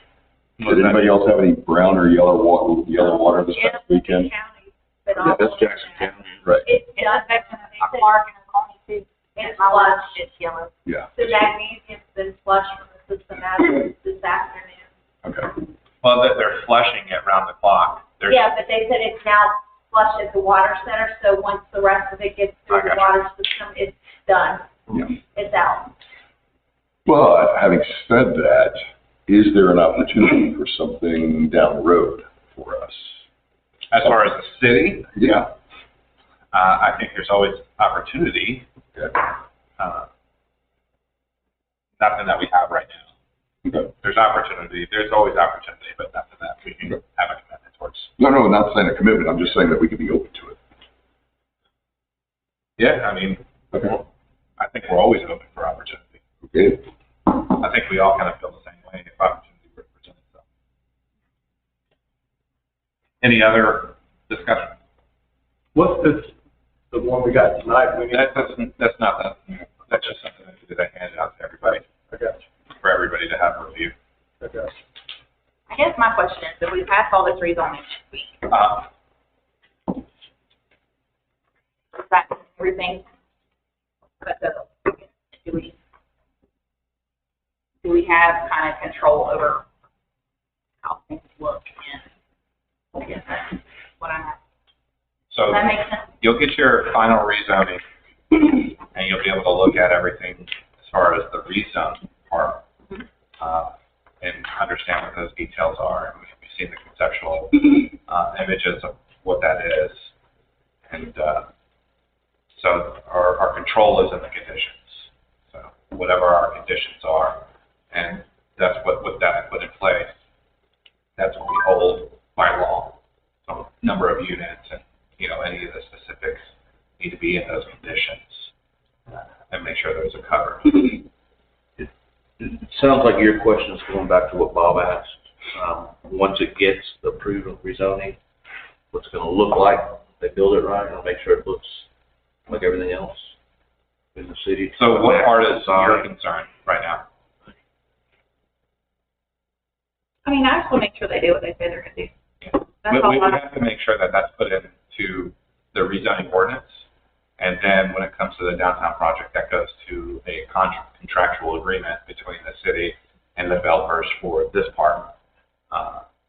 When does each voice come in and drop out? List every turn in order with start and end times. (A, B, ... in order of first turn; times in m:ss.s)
0:00.6-0:04.3 A
0:04.3-0:06.1 B
0:05.2-0:06.4 C
0:06.6-0:08.2 B
0:07.0-0:10.7 D
0:09.4-0:10.2 B
0:10.9-0:11.3 A
0:11.2-0:14.9 B
0:15.2-0:15.5 A
0:16.0-0:18.6 E
0:18.3-0:25.9 B
0:22.7-0:23.1 E
0:27.1-0:33.2 A
0:33.9-0:35.4 E
0:35.2-0:35.4 A
0:36.5-0:38.7 E
0:39.8-0:40.1 E
0:42.0-0:43.1 E
0:44.0-0:48.1 E
0:48.2-0:50.6 A
0:52.8-0:53.4 E
0:54.6-0:56.2 E
0:56.5-0:56.8 A
0:57.3-1:00.4 E
1:03.2-1:04.8 E
1:05.8-1:06.3 F
1:06.9-1:08.5 F
1:08.1-1:11.8 E
1:12.1-1:12.4 F
1:12.8-1:14.0 E
1:14.4-1:14.8 F
1:15.7-1:18.4 D
1:18.5-1:18.9 E
1:22.0-1:23.1 D
1:24.2-1:25.8 D
1:27.8-1:29.6 D
1:30.8-1:32.1 D
1:33.0-1:34.4 D
1:35.3-1:37.8 E
1:35.5-1:36.1 D
1:38.3-1:42.6 E
1:43.4-1:50.1 E
1:50.9-1:51.5 E
1:52.6-2:00.2 E
2:01.2-2:08.5 E
2:09.5-2:11.0 E
2:11.8-2:18.2 C
2:18.9-2:21.9 C
2:22.5-2:23.4 C
2:24.2-2:26.1 C
2:24.8-2:27.1 E
2:30.2-2:32.1 D
2:32.4-2:36.9 E
2:32.8-2:33.4 D
2:37.4-2:45.1 E
2:45.7-2:46.0 E